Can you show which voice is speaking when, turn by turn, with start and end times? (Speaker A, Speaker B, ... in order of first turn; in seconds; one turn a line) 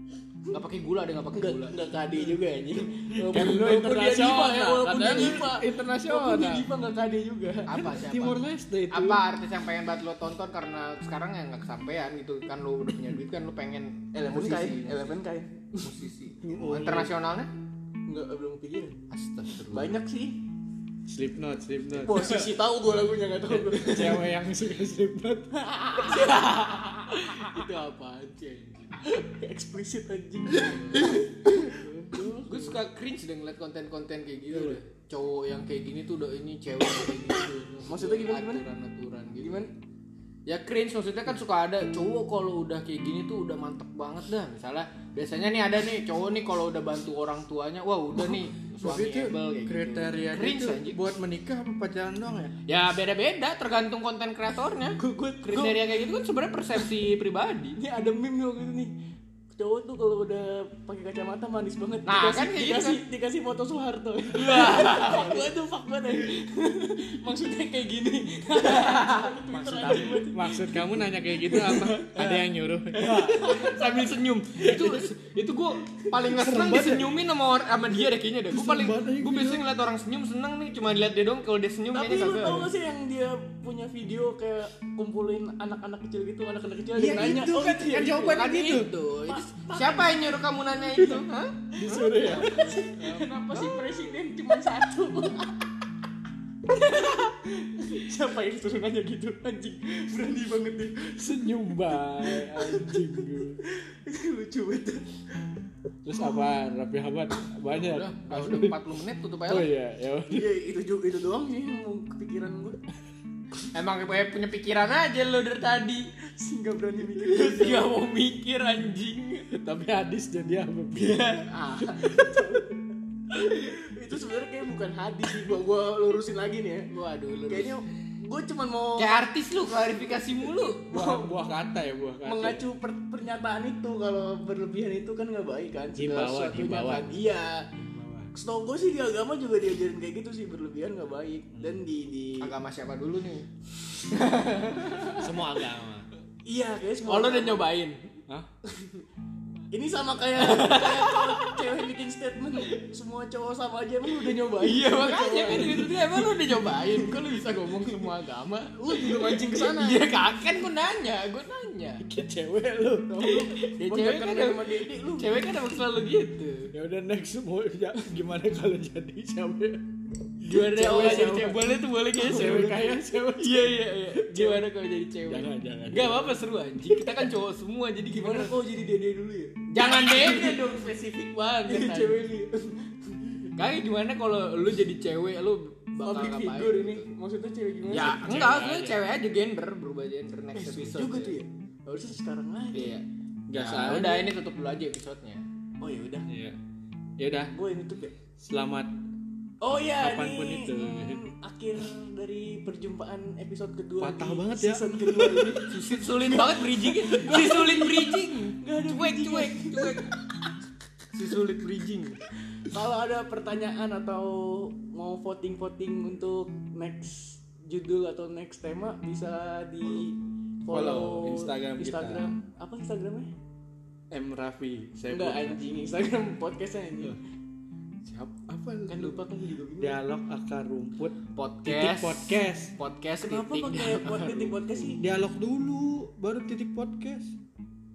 Speaker A: 0.5-1.8
Speaker B: 1.3-8.1
Speaker C: 3.1-6.7
Speaker A: 4.5-5.5
Speaker A: 7.7-15.2
Speaker C: 7.9-9.2
Speaker B: 14.1-15.9
Speaker A: 15.8-17.5
Speaker C: 16.5-17.1
Speaker B: 18.1-19.0
Speaker A: 19.1-19.9
Speaker B: 19.5-20.4
Speaker C: 21.1-22.6
Speaker B: 22.0-24.3
Speaker C: 23.5-25.5
Speaker B: 25.6-32.8
Speaker A: 26.1-27.6
Speaker C: 30.6-32.7
Speaker A: 32.4-39.7
Speaker B: 34.5-34.8
Speaker B: 37.9-38.6
Speaker B: 39.4-39.7
Speaker A: 40.5-51.0
Speaker C: 48.8-52.5
Speaker A: 52.7-57.8
Speaker B: 55.0-55.9
Speaker B: 57.8-59.0
Speaker B: 59.5-72.4
Speaker A: 62.1-63.0
Speaker A: 64.3-65.5
Speaker A: 68.7-69.3
Speaker C: 69.5-73.5
Speaker A: 73.0-82.7
Speaker B: 73.0-73.9
Speaker C: 76.2-77.2
Speaker C: 78.5-79.7
Speaker B: 81.9-90.4
Speaker C: 87.0-88.2
Speaker A: 87.2-91.6
Speaker B: 91.7-95.7
Speaker C: 91.8-93.7
Speaker B: 96.7-105.1
Speaker C: 101.2-103.6
Speaker C: 106.0-108.8
Speaker A: 107.7-109.7
Speaker C: 109.5-110.5
Speaker B: 110.3-112.8
Speaker A: 113.7-116.1
Speaker B: 116.4-117.9
Speaker A: 117.2-119.5
Speaker C: 119.5-122.7
Speaker A: 121.0-121.7
Speaker B: 121.5-122.7
Speaker B: 123.3-126.9
Speaker A: 126.9-127.8
Speaker B: 127.5-129.2
Speaker A: 129.0-130.9
Speaker B: 130.9-131.3
Speaker C: 130.9-132.6
Speaker B: 132.2-137.7
Speaker C: 135.9-137.2
Speaker C: 137.7-138.3
Speaker B: 138.3-142.5
Speaker C: 141.5-141.9
Speaker A: 142.4-143.5
Speaker A: 144.1-146.1
Speaker B: 144.6-145.3
Speaker B: 146.4-147.6
Speaker A: 147.1-148.1
Speaker B: 148.7-149.1
Speaker B: 149.7-157.3
Speaker A: 150.3-151.8
Speaker A: 154.3-162.1
Speaker B: 158.8-160.1
Speaker C: 162.0-163.2
Speaker B: 163.0-165.4
Speaker A: 163.3-166.7
Speaker C: 166.7-169.8
Speaker A: 170.4-178.6
Speaker B: 170.5-174.7
Speaker C: 170.8-171.5
Speaker C: 172.2-173.6
Speaker C: 175.3-176.4
Speaker B: 178.1-180.9
Speaker A: 179.7-182.2
Speaker B: 181.7-183.5
Speaker A: 183.6-187.0
Speaker B: 186.0-188.2
Speaker A: 187.9-191.4
Speaker C: 187.9-189.0
Speaker B: 190.6-192.9
Speaker A: 192.7-195.4
Speaker C: 193.5-194.3
Speaker B: 195.8-196.3
Speaker C: 196.3-196.6
Speaker C: 197.2-197.5
Speaker B: 197.5-198.2
Speaker C: 198.4-199.0
Speaker B: 199.6-210.2
Speaker C: 199.7-201.3
Speaker C: 204.0-205.7
Speaker A: 205.6-210.2
Speaker A: 211.1-212.2
Speaker B: 212.6-223.3
Speaker C: 220.7-222.3
Speaker C: 224.1-225.6
Speaker B: 225.1-227.2
Speaker C: 228.1-229.2
Speaker B: 228.9-230.0
Speaker C: 229.8-232.8
Speaker A: 231.3-234.6
Speaker B: 233.2-235.0
Speaker C: 235.0-237.4